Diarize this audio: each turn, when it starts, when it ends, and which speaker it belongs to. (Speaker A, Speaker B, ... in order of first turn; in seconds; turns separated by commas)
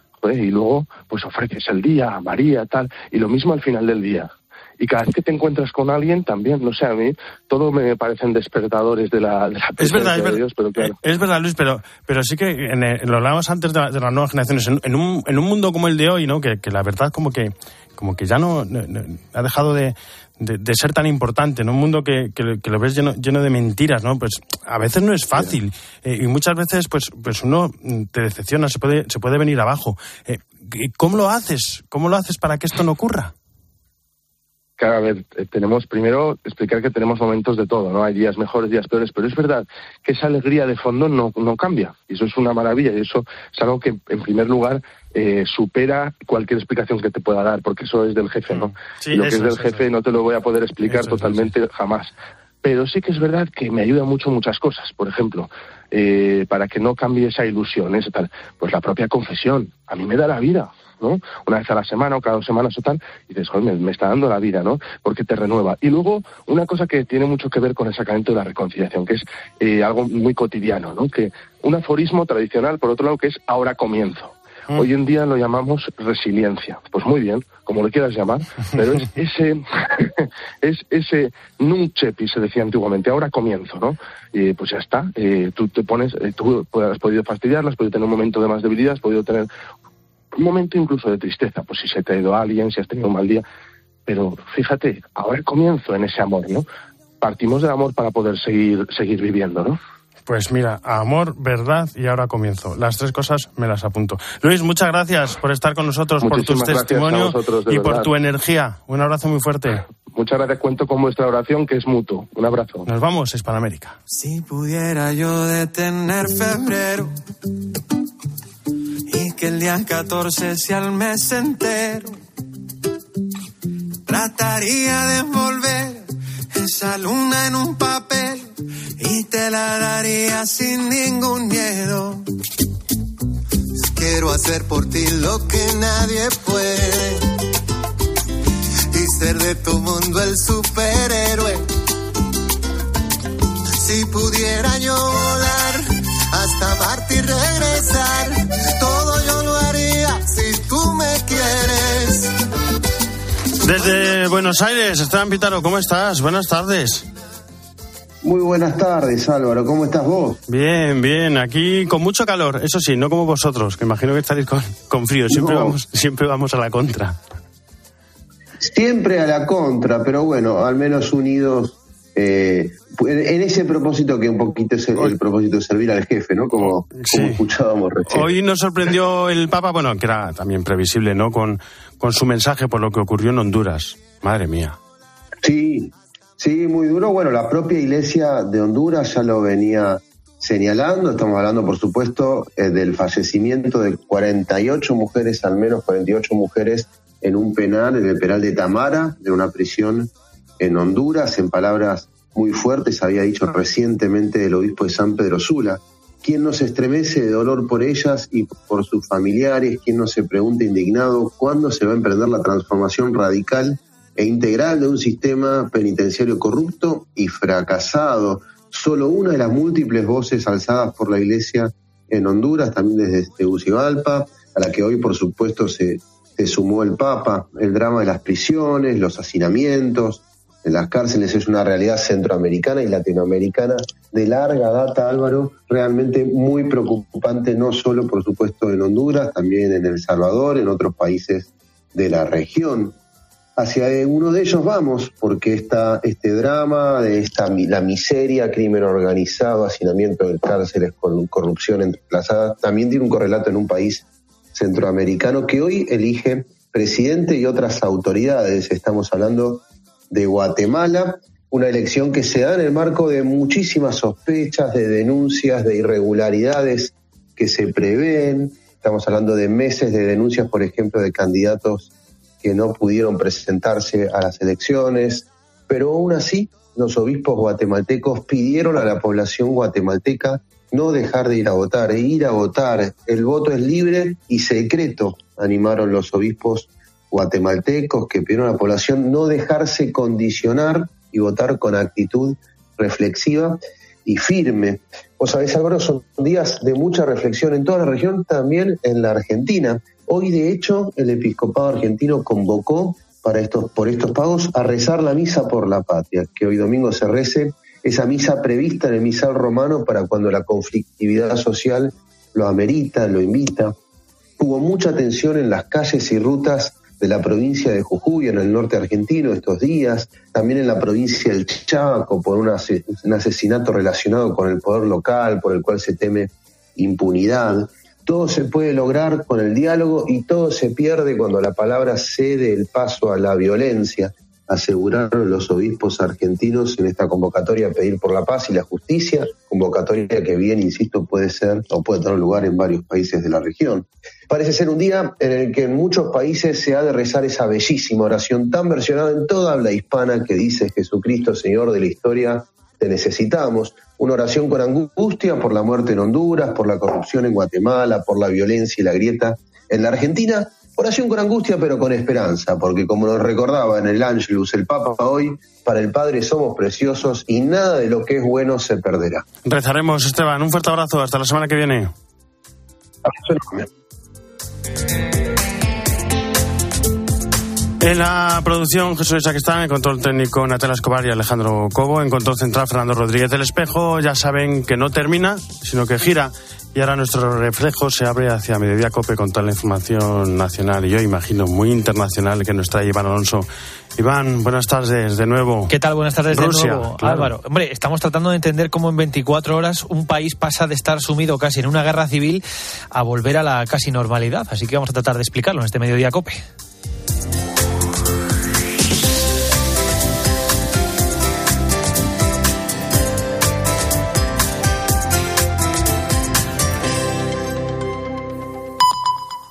Speaker A: 0.2-11.0, Speaker B: 9.8-33.3, Speaker A: 34.8-52.1, Speaker B: 48.5-49.8, Speaker B: 50.9-51.5, Speaker A: 52.6-89.5, Speaker A: 90.4-93.4, Speaker A: 94.0-96.7, Speaker A: 97.2-99.8, Speaker B: 100.3-109.8, Speaker A: 106.2-108.1, Speaker A: 110.1-112.9, Speaker B: 112.8-114.0, Speaker C: 114.1-117.1, Speaker C: 119.1-122.1, Speaker C: 124.1-132.3, Speaker D: 133.9-137.2, Speaker D: 138.9-141.6, Speaker D: 143.8-145.8, Speaker D: 146.3-152.3, Speaker B: 153.6-157.1, Speaker E: 158.2-160.4, Speaker B: 160.5-167.2, Speaker E: 165.3-165.8, Speaker E: 168.6-178.3, Speaker B: 176.6-177.4, Speaker B: 178.1-184.8, Speaker E: 185.4-242.9, Speaker E: 243.6-271.9, Speaker E: 272.4-313.7, Speaker E: 314.4-369.2, Speaker B: 369.4-371.9, Speaker E: 373.0-373.6, Speaker B: 377.8-395.7, Speaker F: 395.7-402.4, Speaker B: 396.3-397.3, Speaker F: 402.9-406.4